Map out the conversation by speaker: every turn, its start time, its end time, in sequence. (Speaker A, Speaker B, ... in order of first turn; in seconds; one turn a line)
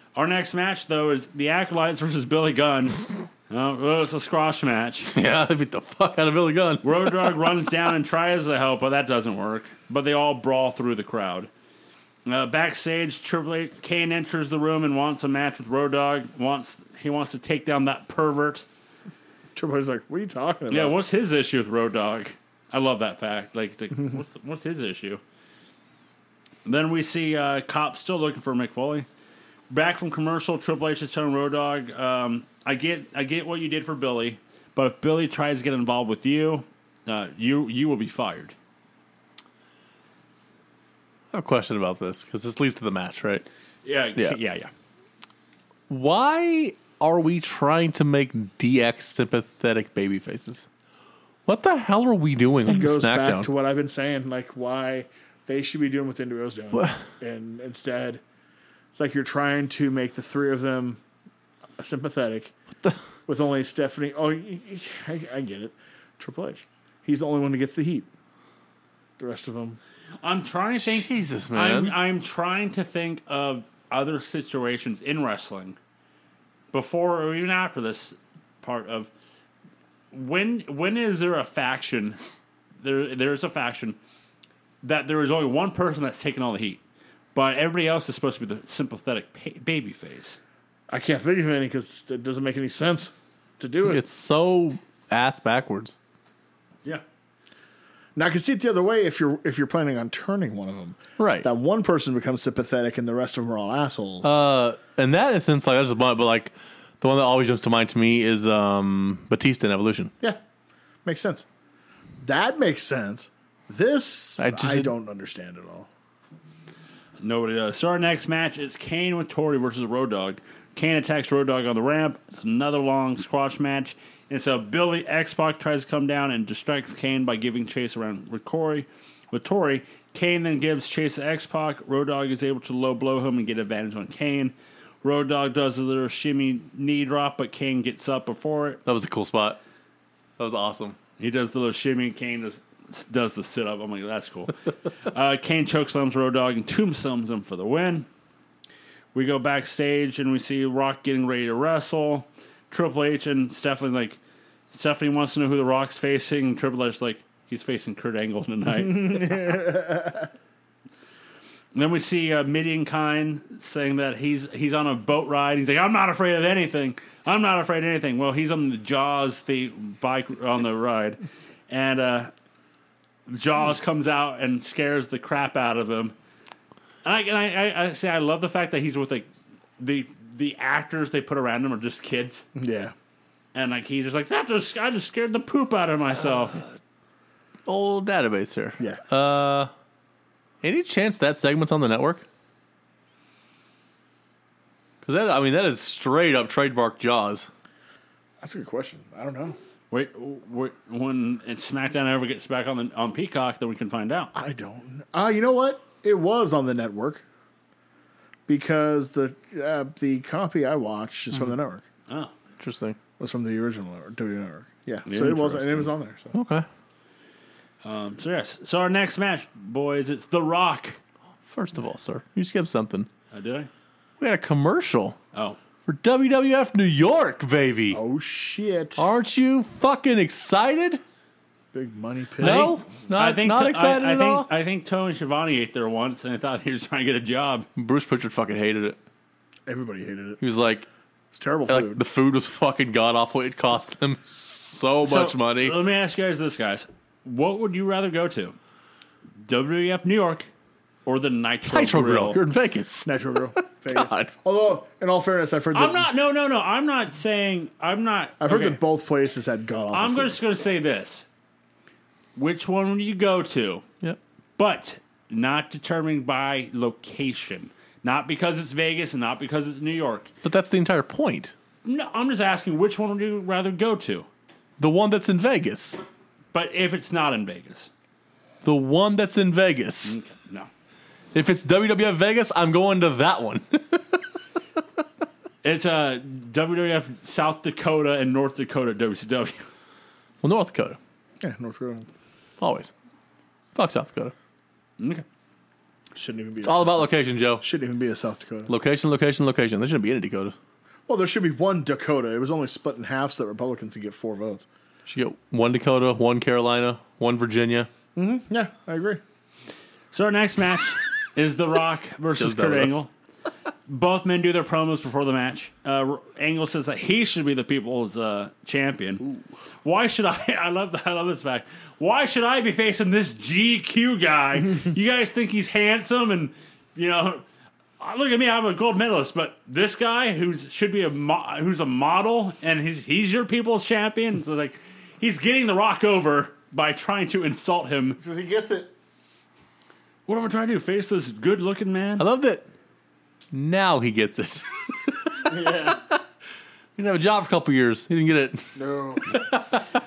Speaker A: 0.1-5.1
Speaker B: 5.1-7.4
Speaker A: 6.8-11.5
Speaker A: 12.2-18.7
Speaker C: 19.5-20.9
Speaker A: 20.7-25.2
Speaker A: 26.6-29.1
Speaker A: 29.7-38.5
Speaker B: 41.3-43.5
Speaker A: 43.8-44.7
Speaker B: 45.9-50.6
Speaker B: 51.5-53.5
Speaker C: 52.6-58.2
Speaker B: 56.7-57.0
Speaker C: 58.9-61.0
Speaker C: 61.8-62.5
Speaker C: 63.2-68.1
Speaker C: 69.2-69.8
Speaker A: 70.2-75.8
Speaker B: 70.8-72.0
Speaker A: 76.7-79.1
Speaker A: 80.1-82.2
Speaker A: 82.8-84.0
Speaker A: 84.8-86.8
Speaker A: 87.3-90.4
Speaker C: 90.9-94.0
Speaker B: 93.9-96.0
Speaker C: 98.2-104.3
Speaker B: 101.2-101.5
Speaker B: 104.2-110.1
Speaker C: 111.0-111.4
Speaker C: 112.2-115.9
Speaker B: 114.4-114.9
Speaker A: 117.2-138.8
Speaker B: 138.8-139.6
Speaker B: 140.4-141.0
Speaker A: 141.2-148.1
Speaker A: 149.1-154.2
Speaker A: 154.7-159.5
Speaker C: 158.8-160.3
Speaker A: 161.7-172.3
Speaker A: 173.3-176.1
Speaker A: 177.0-179.3
Speaker A: 179.8-182.4
Speaker C: 182.5-182.9
Speaker A: 183.5-186.6
Speaker B: 187.7-189.7
Speaker B: 190.6-192.2
Speaker B: 195.0-197.5
Speaker C: 198.4-199.6
Speaker A: 199.9-204.3
Speaker C: 204.3-207.2
Speaker C: 208.5-211.8
Speaker B: 212.6-213.0
Speaker C: 213.2-216.3
Speaker A: 215.1-215.9
Speaker B: 216.3-216.7
Speaker A: 217.8-221.0
Speaker B: 221.4-223.1
Speaker A: 223.3-223.7
Speaker B: 224.2-225.2
Speaker B: 225.8-228.0
Speaker C: 227.9-229.1
Speaker B: 229.0-231.0
Speaker C: 231.7-232.8
Speaker B: 232.4-234.5
Speaker A: 232.4-237.7
Speaker B: 237.8-239.0
Speaker C: 239.7-240.4
Speaker B: 240.4-240.9
Speaker C: 241.3-242.0
Speaker B: 241.7-245.8
Speaker A: 245.0-248.6
Speaker A: 249.4-250.5
Speaker A: 251.1-252.4
Speaker B: 251.7-253.1
Speaker C: 253.0-256.1
Speaker B: 253.9-254.3
Speaker A: 255.7-258.8
Speaker C: 258.4-260.4
Speaker A: 259.9-261.2
Speaker A: 262.4-263.8
Speaker A: 264.6-270.3
Speaker B: 270.4-271.5
Speaker A: 271.8-274.3
Speaker B: 274.8-276.0
Speaker A: 276.5-277.9
Speaker B: 278.6-280.2
Speaker A: 280.0-280.7
Speaker B: 281.3-284.2
Speaker A: 285.6-289.6
Speaker B: 290.4-291.0
Speaker C: 291.4-292.1
Speaker B: 292.6-292.9
Speaker B: 293.7-294.3
Speaker A: 295.0-295.2
Speaker C: 296.1-298.7
Speaker B: 296.6-297.6
Speaker B: 298.7-300.5
Speaker C: 301.1-304.7
Speaker B: 305.1-307.9
Speaker C: 308.1-309.2
Speaker A: 310.1-313.1
Speaker B: 312.4-313.0
Speaker A: 313.9-319.2
Speaker A: 319.8-327.4
Speaker A: 328.0-338.2
Speaker C: 338.2-338.9
Speaker A: 340.3-342.2
Speaker B: 342.2-342.6
Speaker B: 343.5-346.1
Speaker C: 345.4-346.0
Speaker B: 347.0-348.7
Speaker C: 348.8-349.4
Speaker B: 349.2-349.8